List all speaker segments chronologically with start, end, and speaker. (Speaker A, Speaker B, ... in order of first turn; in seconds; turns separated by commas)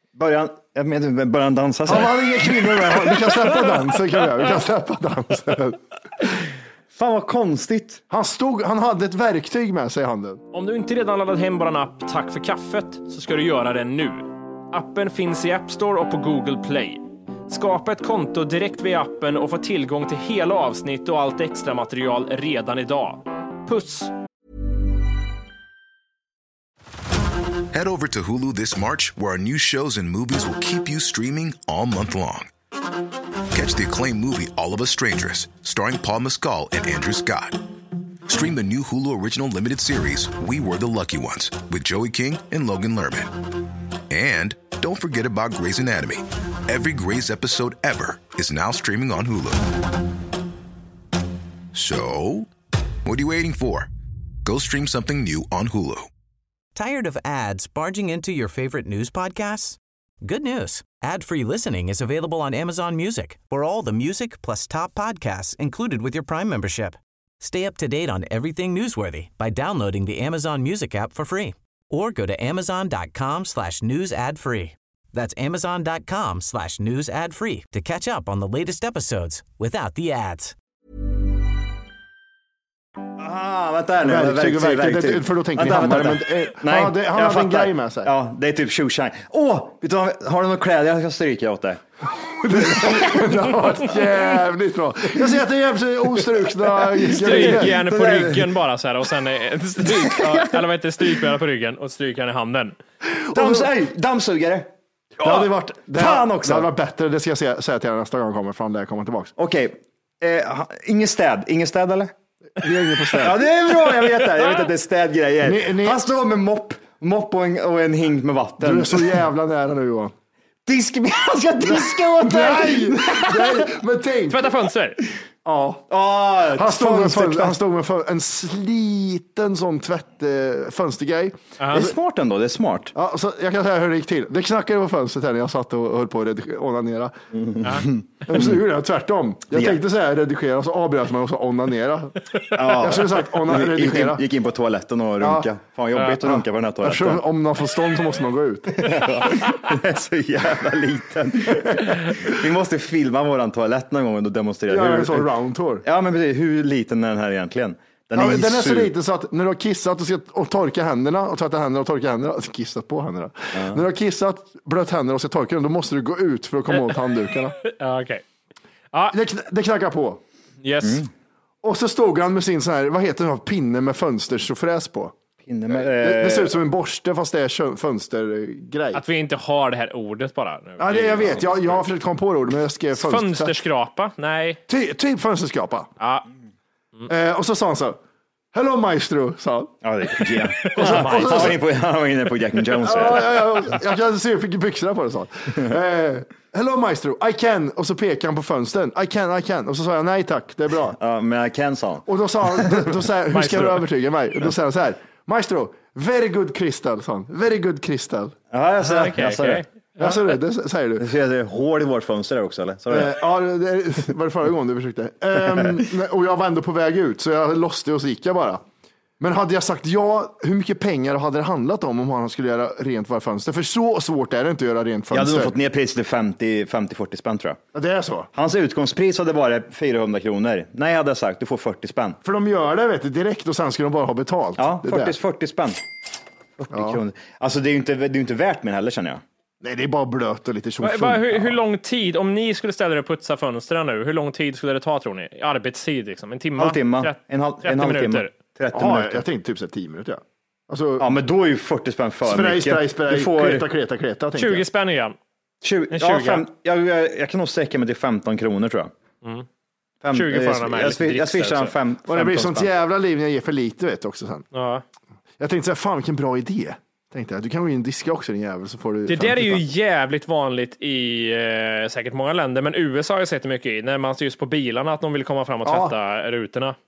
Speaker A: 0.1-2.5, Speaker B: 1.9-5.8, Speaker A: 6.9-8.0, Speaker B: 8.1-10.4, Speaker C: 10.5-24.1, Speaker D: 27.7-32.5, Speaker D: 33.5-37.6, Speaker D: 38.3-43.5, Speaker D: 44.1-49.8, Speaker D: 51.7-52.5, Speaker D: 53.0-53.9, Speaker D: 54.4-56.1, Speaker E: 56.7-80.5, Speaker A: 83.2-91.8, Speaker B: 84.0-88.1, Speaker B: 92.3-97.8, Speaker A: 92.6-93.1, Speaker C: 97.0-102.8, Speaker A: 97.2-98.5, Speaker A: 100.1-100.5, Speaker B: 103.2-103.7, Speaker A: 103.3-106.7, Speaker B: 105.2-109.3, Speaker A: 109.4-112.1, Speaker B: 112.6-113.4, Speaker A: 113.2-119.2, Speaker B: 115.4-116.0, Speaker B: 118.6-120.1, Speaker A: 120.7-123.7, Speaker B: 121.6-124.5, Speaker C: 124.3-125.0, Speaker B: 125.4-125.9, Speaker A: 125.9-127.6, Speaker B: 126.5-131.4, Speaker C: 131.6-131.9, Speaker A: 131.7-132.9, Speaker B: 132.9-137.2, Speaker A: 137.3-138.6, Speaker C: 137.6-137.9, Speaker B: 138.2-144.2, Speaker A: 139.5-139.8, Speaker A: 142.5-147.2, Speaker B: 145.2-145.5, Speaker B: 146.2-148.8, Speaker A: 148.7-155.3, Speaker B: 154.7-155.8, Speaker A: 155.8-158.9, Speaker B: 158.1-167.6, Speaker A: 163.5-163.8, Speaker C: 167.6-168.2, Speaker B: 169.1-170.2, Speaker C: 170.6-171.0, Speaker A: 170.8-171.1, Speaker B: 171.6-175.1, Speaker A: 175.4-176.6, Speaker B: 175.7-179.0, Speaker C: 178.9-181.8, Speaker B: 180.8-183.6, Speaker C: 182.9-184.6, Speaker B: 184.7-185.9, Speaker C: 186.0-186.3, Speaker B: 187.1-188.0, Speaker B: 188.5-189.7, Speaker A: 189.8-193.3, Speaker C: 190.6-191.5, Speaker B: 190.7-191.6, Speaker B: 192.8-201.0, Speaker A: 201.0-202.9, Speaker B: 202.1-208.3, Speaker C: 203.3-203.9, Speaker A: 208.5-209.6, Speaker C: 208.8-209.7, Speaker B: 210.0-211.0, Speaker A: 211.0-213.2, Speaker B: 212.9-218.6, Speaker A: 215.4-215.8, Speaker B: 219.2-225.5, Speaker A: 225.1-227.6, Speaker B: 227.7-228.3, Speaker A: 228.3-232.2, Speaker B: 232.2-235.1, Speaker A: 234.6-235.8, Speaker A: 236.6-239.2, Speaker B: 236.7-237.0, Speaker B: 239.6-241.6, Speaker C: 240.8-248.3, Speaker A: 246.6-249.2, Speaker B: 248.7-251.1, Speaker A: 251.0-253.7, Speaker B: 252.2-254.7, Speaker C: 254.3-255.2, Speaker A: 255.6-258.9, Speaker C: 255.9-256.4, Speaker A: 260.0-262.7, Speaker C: 260.1-261.7, Speaker B: 262.1-264.4, Speaker C: 264.5-264.8, Speaker B: 265.4-269.6, Speaker C: 269.1-276.8, Speaker B: 275.6-275.9